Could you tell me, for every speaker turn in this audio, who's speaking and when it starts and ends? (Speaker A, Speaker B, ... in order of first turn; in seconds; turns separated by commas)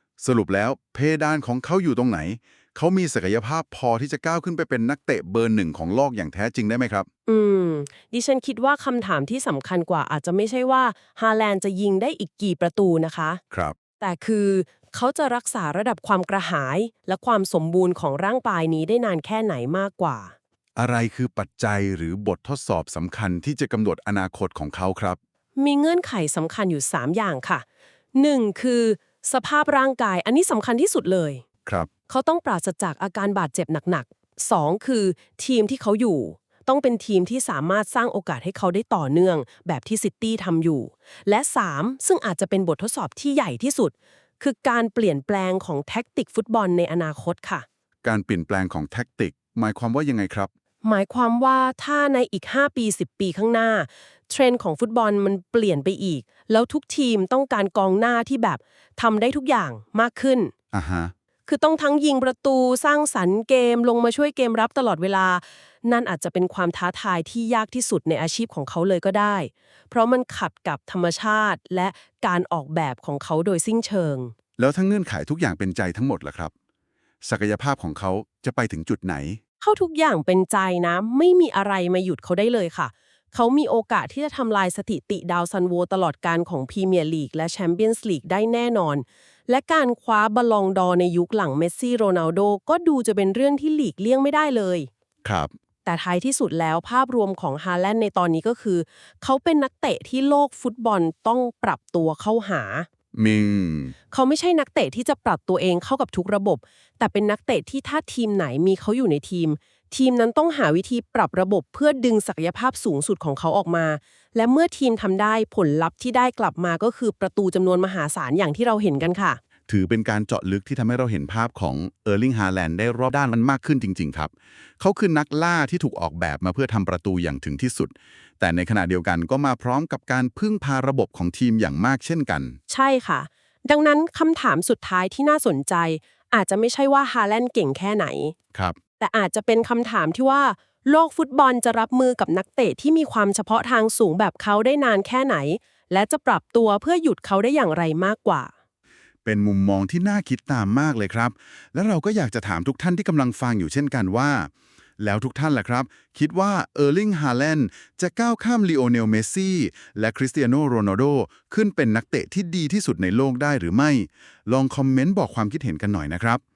Speaker A: 0.2-7.1, Speaker B: 7.3-13.4, Speaker B: 14.0-20.3, Speaker A: 20.8-25.2, Speaker B: 25.6-27.6, Speaker B: 28.1-31.4, Speaker B: 32.1-47.6, Speaker A: 48.0-50.5, Speaker B: 50.8-60.5, Speaker A: 60.7-61.1, Speaker B: 61.5-74.3, Speaker A: 74.6-76.5, Speaker A: 77.2-79.4, Speaker B: 79.6-94.9, Speaker A: 95.2-95.5, Speaker B: 95.9-102.9, Speaker A: 103.2-103.9, Speaker B: 104.1-119.4, Speaker A: 119.7-132.6, Speaker B: 132.7-138.3, Speaker B: 139.0-148.5, Speaker A: 149.2-166.4